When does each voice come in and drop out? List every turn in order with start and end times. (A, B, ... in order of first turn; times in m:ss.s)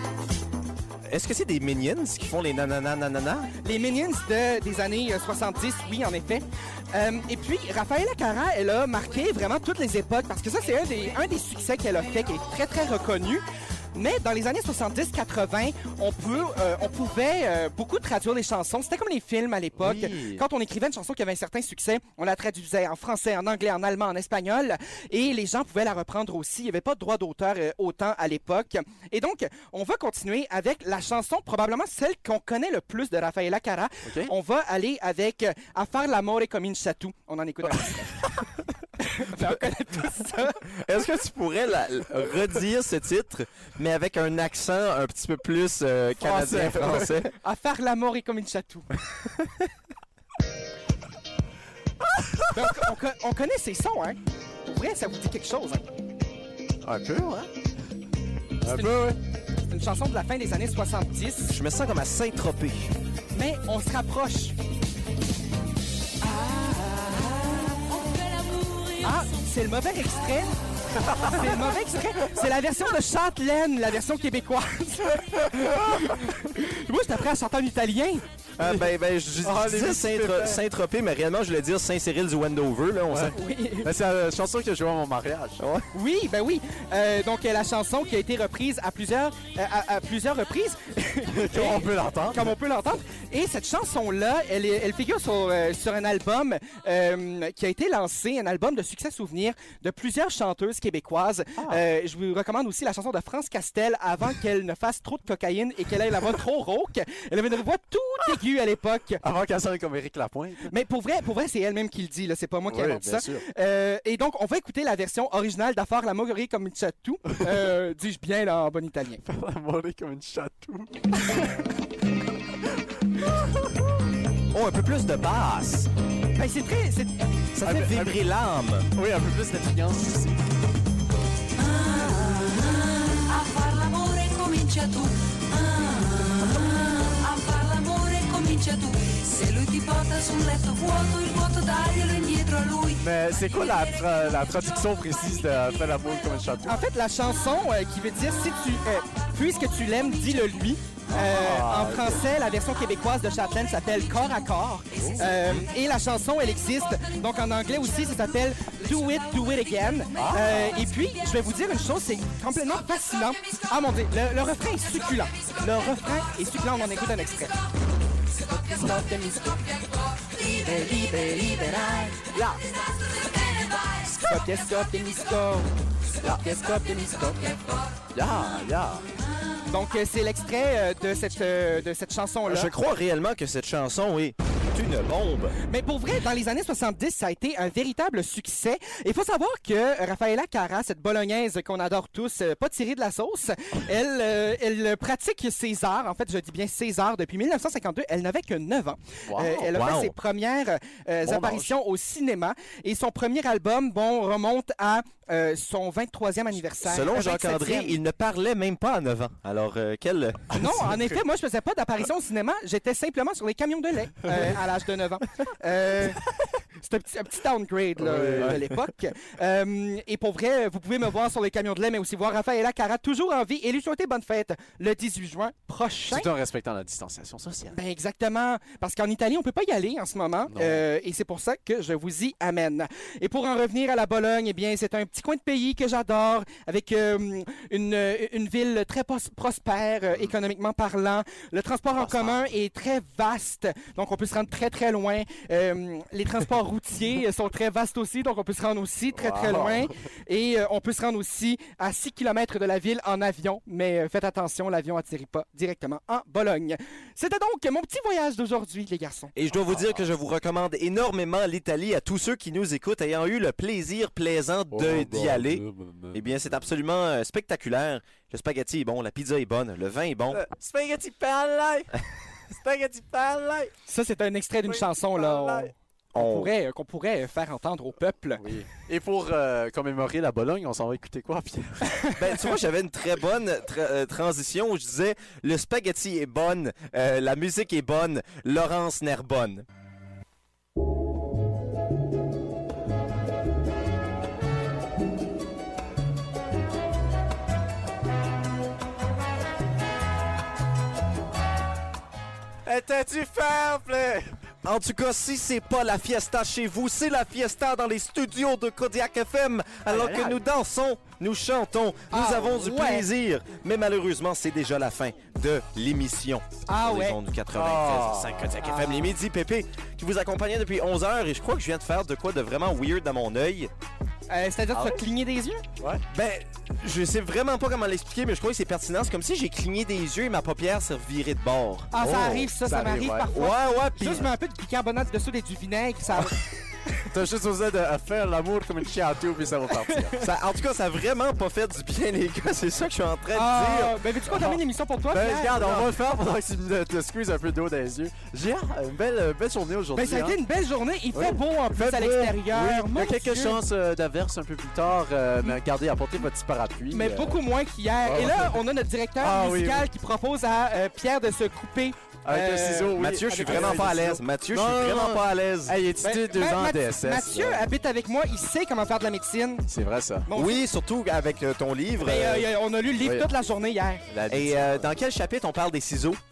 0:01.1-0:03.5 A
0:03.6-0:38.3 B
0:19.7-0:20.4 C
0:34.0-0:34.3 C
0:37.7-0:38.5 C
0:39.0-0:40.6 B
0:40.8-0:47.3 A
0:46.2-0:47.2 C
0:47.3-0:48.9 B
0:49.2-0:49.5 A
0:52.0-0:52.8 C
0:52.5-0:55.9 B
0:56.8-0:57.5 C
0:58.6-0:59.2 C
0:58.6-0:59.2 B
0:59.7-1:01.5 B
1:01.5-1:02.9 A
1:03.3-1:04.6 B
1:06.2-1:07.8 B
1:07.7-1:09.3 D
1:09.0-1:10.6 B
1:11.0-1:11.7 C
1:11.2-1:18.2 B
1:15.6-1:16.0 C
1:18.6-1:23.4 A
1:18.6-1:18.9 C
1:19.4-1:20.6 C
1:23.1-1:25.6 C
1:23.3-1:23.9 B
1:25.6-1:25.9 A
1:25.9-1:49.2 B
1:31.3-1:32.6 C
1:41.6-1:41.8 C
1:49.2-1:50.7 C
1:50.7-1:59.2 B
1:52.7-1:53.4 C
1:59.2-2:01.0 C
2:04.5-2:05.9 A
2:06.3-2:07.4 B
2:07.5-2:08.9 A
2:07.6-2:08.2 C
2:08.9-2:10.4 C
2:11.5-2:24.3 D
2:23.0-2:26.8 C
2:26.6-2:47.6 B
2:31.1-2:32.2 C
2:34.9-2:35.6 C
2:40.1-2:40.8 C
2:48.4-2:52.6 B
2:53.5-2:53.8 D
2:54.0-2:57.8 B
2:58.1-2:59.0 C
2:59.7-3:02.7 B
3:02.4-3:05.6 A
3:05.6-3:28.0 B
3:19.3-3:19.8 C
3:19.7-3:20.1 A
3:21.2-3:21.7 C
3:26.8-3:30.5 A
3:30.5-3:31.2 C
3:30.5-3:36.2 B
3:36.8-3:46.3 B
3:38.0-3:38.6 C
3:46.1-3:47.8 C
3:47.7-4:19.3 B
3:50.5-3:50.8 C
4:02.0-4:02.3 C
4:09.1-4:09.9 C
4:19.4-4:30.4 A
4:19.5-4:20.1 C
4:24.7-4:26.7 C
4:30.3-4:32.0 C
4:32.5-4:33.7 C
4:33.9-4:38.4 B
4:34.6-4:35.7 C
4:36.1-4:36.5 A
4:38.4-4:42.0 C
4:41.9-4:42.2 B
4:42.2-4:49.6 A
5:02.6-5:04.4 C
5:04.6-5:23.7 A
5:09.8-5:10.4 C
5:12.1-5:13.1 B
5:16.7-5:17.2 B
5:17.5-5:18.6 C
5:18.6-5:19.1 B
5:24.3-5:25.6 B
5:24.7-5:25.0 C
5:25.8-5:26.0 C
5:26.1-5:32.2 A
5:31.9-5:36.4 B
5:32.0-5:33.3 C
5:33.3-5:34.3 A
5:37.1-5:40.2 C
5:39.7-5:40.1 B
5:40.2-5:44.0 A
5:43.3-5:45.9 B
5:44.3-5:44.6 C
5:45.1-5:50.4 C
5:50.0-5:53.6 B
5:51.1-5:57.4 C
5:56.9-6:04.2 B
5:58.0-5:58.6 C
5:59.2-5:59.9 C
6:02.2-6:07.7 C
6:03.3-6:05.8 A
6:06.0-6:09.6 B
6:09.7-6:10.3 C
6:10.3-6:10.6 B
6:10.3-6:12.5 A
6:12.0-6:14.0 B
6:13.0-6:13.3 C
6:14.1-6:14.9 C
6:14.3-6:16.2 A